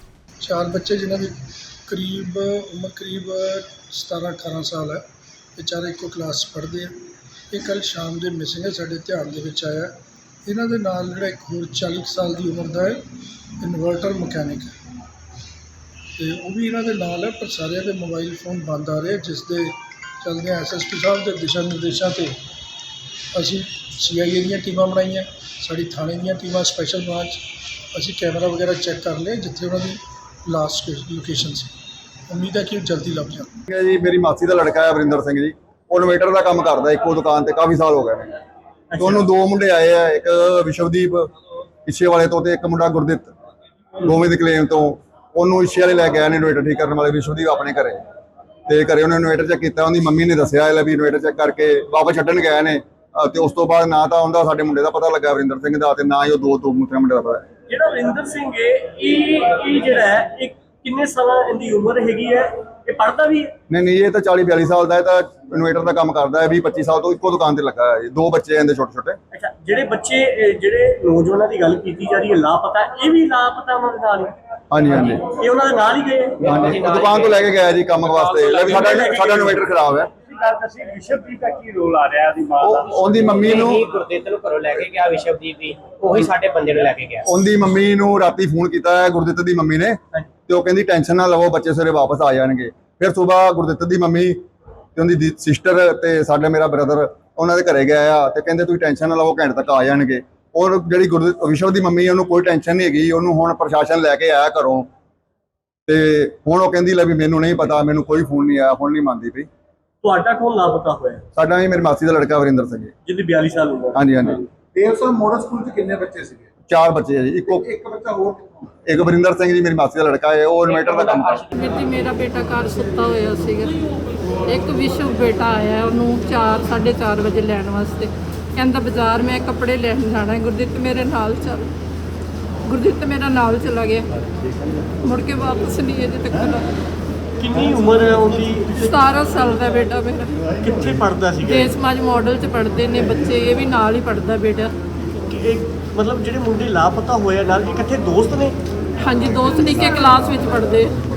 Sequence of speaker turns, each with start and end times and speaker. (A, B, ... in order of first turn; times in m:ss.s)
0:00.4-0:01.3 A
0:01.9-0:05.0 A
0:05.6-0:06.9 A
0:07.5-0:09.9 A
0:10.4-0:13.0 A
0:13.6-0:14.7 A
0:16.2-0:22.3 A
0:23.3-0:27.4 A
0:27.9-0:31.7 A
0:32.3-0:33.5 A
0:33.7-0:38.4 B
0:39.0-0:41.3 B
0:41.8-0:43.3 B
0:44.0-0:48.0 B
0:48.7-0:57.5 B
0:57.7-1:03.5 C
1:03.7-1:09.2 B
1:09.3-1:14.3 C
1:14.7-1:15.2 B
1:15.2-1:16.4 C
1:16.4-1:17.5 D
1:16.4-1:20.1 B
1:18.2-1:18.9 D
1:22.6-1:23.8 B
1:22.8-1:27.3 D
1:27.2-1:34.4 B
1:35.0-1:44.9 B
1:45.9-1:49.5 B
1:50.0-1:51.2 C
1:51.4-1:52.9 B
1:53.0-1:54.4 C
1:53.9-1:54.4 B
1:54.7-1:56.4 E
1:56.7-1:57.9 B
1:57.9-1:58.4 E
1:58.8-2:01.4 B
2:01.5-2:03.7 F
2:04.4-2:11.7 F
2:12.7-2:14.1 F
2:15.0-2:16.7 F
2:17.4-2:18.7 C
2:18.7-2:20.3 F
2:20.6-2:21.7 C
2:21.4-2:24.7 F
2:25.4-2:28.5 C
2:29.0-2:30.9 F